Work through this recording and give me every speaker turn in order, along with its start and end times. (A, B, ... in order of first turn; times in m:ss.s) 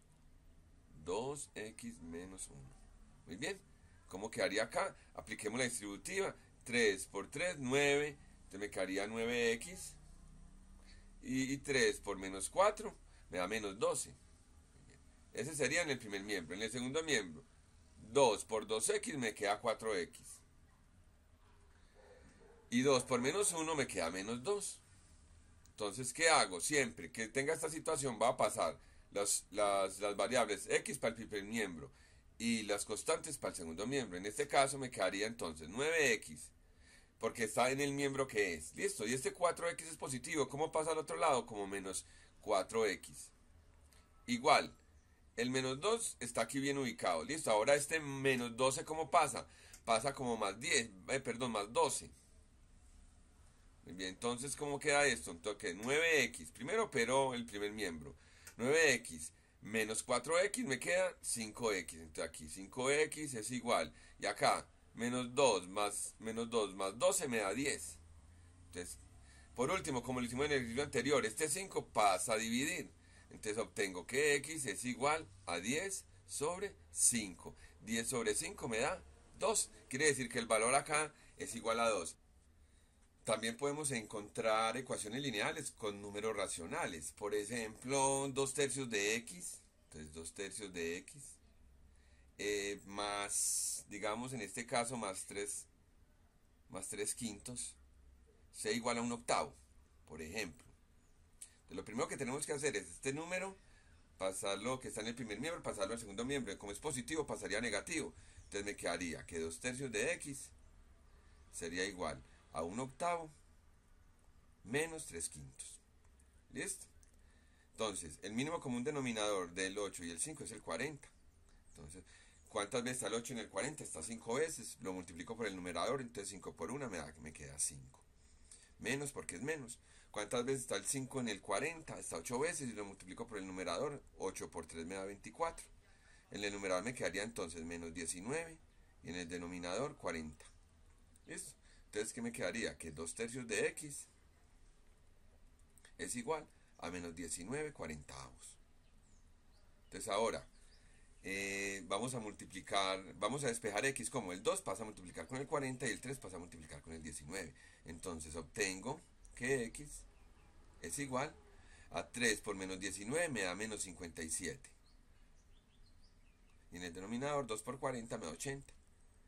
0:00.9-0:10.0 A
0:11.2-0:14.2 A
0:15.3-0:17.4 A
0:18.0-0:20.4 A
0:22.7-0:24.8 A
0:25.8-0:36.5 A
0:37.2-0:43.3 A
0:44.2-0:44.8 A
0:45.4-0:52.1 A
0:53.8-1:08.0 A
1:08.7-1:09.0 A
1:09.5-1:22.2 A
1:23.2-1:31.4 A
1:32.4-1:35.7 A
1:36.7-1:37.8 A
1:38.5-1:40.8 A
1:41.7-1:43.6 A
1:44.2-1:50.5 A
1:51.5-1:53.3 A
1:54.6-1:55.8 A
1:56.5-1:56.9 A
1:57.7-2:01.1 A
2:01.7-2:08.0 A
2:08.8-2:15.7 A
2:16.3-2:20.5 A
2:21.2-2:24.1 A
2:26.0-2:28.6 A
2:29.9-2:30.5 A
2:31.2-2:40.1 A
2:40.8-2:41.4 A
2:41.9-2:44.7 A
2:46.7-2:48.7 A